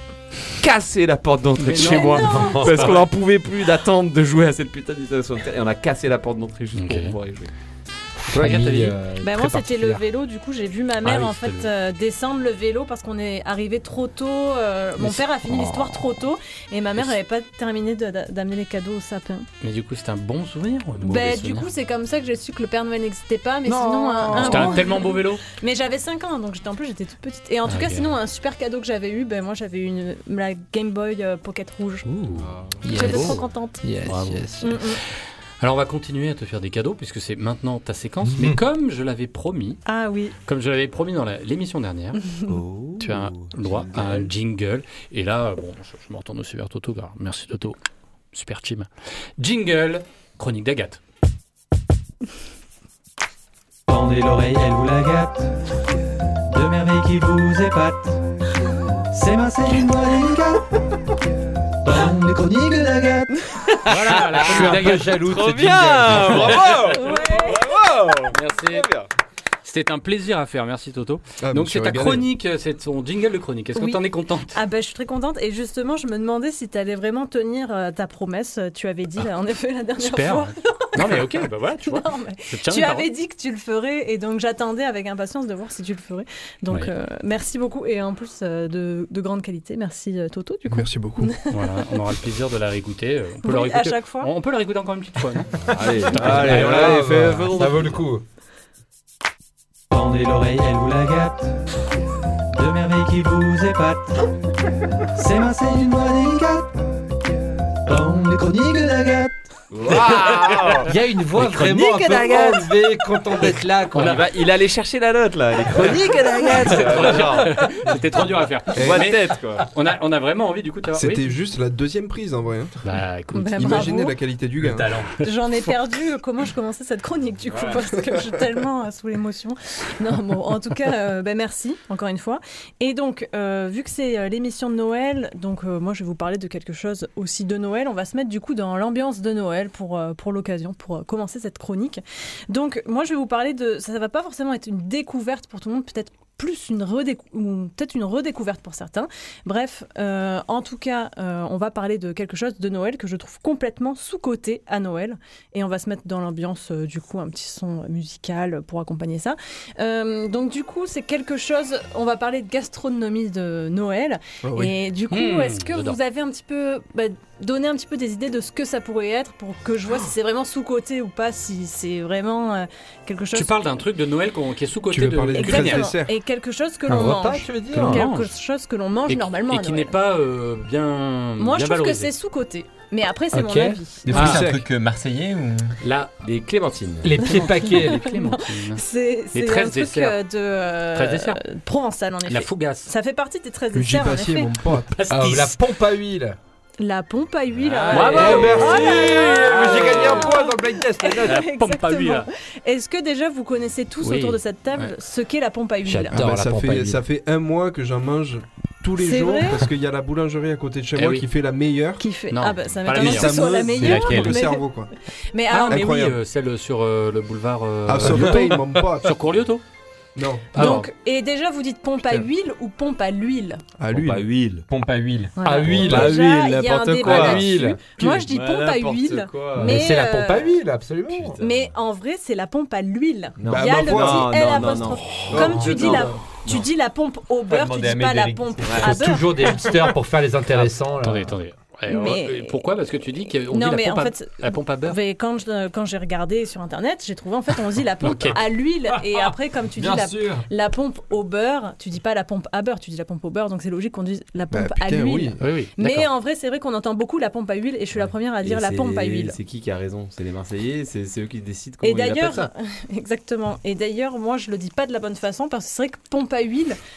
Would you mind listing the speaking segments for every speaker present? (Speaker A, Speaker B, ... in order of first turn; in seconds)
Speaker A: 0.6-7.5, 42.5-44.3, 65.3-67.0, 67.6-69.0, 95.7-97.8, 109.7-110.9, 111.7-112.6, 114.2-117.5, 118.8-119.6, 186.2-187.1, 223.9-224.7, 225.7-226.4, 227.0-229.8, 231.2-231.6, 233.4-236.6, 238.1-239.0, 258.0-262.5
Speaker B: 1.6-3.1, 6.8-7.2, 8.3-8.9, 11.0-11.7, 19.6-21.7, 24.3-25.4, 27.7-28.1, 32.0-33.4, 34.0-34.5, 35.6-39.8, 40.5-42.2, 43.0-47.8, 48.3-48.9, 49.4-51.0, 63.9-65.2, 66.3-66.8, 68.3-68.9, 69.6-74.6, 80.0-83.1, 91.5-95.6, 96.1-97.0, 114.0-114.2, 116.6-121.3, 122.8-123.9, 165.1-166.0, 173.3-175.9, 177.7-178.3, 179.1-182.1, 184.1-184.4, 185.8-186.1, 187.2-190.2, 190.9-191.4, 192.3-192.9, 194.9-195.6, 197.9-200.3, 201.2-202.3, 204.0-204.9, 210.9-211.3, 212.3-214.4, 215.5-219.6, 220.5-220.9, 240.6-245.0, 248.0-248.4, 255.4-256.1
Speaker C: 1.7-2.9, 9.2-19.5, 21.0-32.1, 32.9-33.8, 34.6-35.0, 39.9-40.4, 42.3-42.6, 66.9-67.6, 73.8-91.6, 93.4-94.3, 123.3-124.2, 125.2-173.6, 175.3-180.0, 181.4-184.2, 187.4-194.6, 196.8-206.2, 209.0-209.7, 212.0-214.7, 215.3-216.0, 220.5-223.6, 225.4-230.5, 231.4-239.3, 241.9-242.6, 243.5-259.4, 261.8-266.8
Speaker D: 8.2-10.0, 32.9-34.8, 38.2-38.6, 64.1-66.8, 96.2-98.2, 110.7-114.3, 176.9-178.1, 183.3-183.8, 187.0-188.1, 195.1-196.4, 198.0-201.4, 206.0-207.0, 225.4-226.2, 227.3-227.8, 229.6-231.4, 238.8-241.3
Speaker E: 53.9-55.5, 56.5-58.2, 59.1-60.6, 61.8-63.3, 99.9-101.6, 102.5-104.2, 105.2-106.7, 107.9-109.4
Speaker F: 71.4-72.3, 90.7-91.3, 118.8-119.1, 120.9-122.8, 123.6-125.0, 164.4-164.7, 174.9-176.1, 184.1-184.7, 193.7-195.0, 206.1-212.0, 212.9-214.9, 215.7-216.2, 217.9-219.1, 220.2-220.6, 223.8-224.2, 233.5-234.3, 235.3-236.0, 254.5-255.4
Speaker G: 109.9-110.5, 114.0-117.5, 124.6-124.9, 184.3-185.7, 224.7-227.6, 237.6-238.7, 249.8-250.2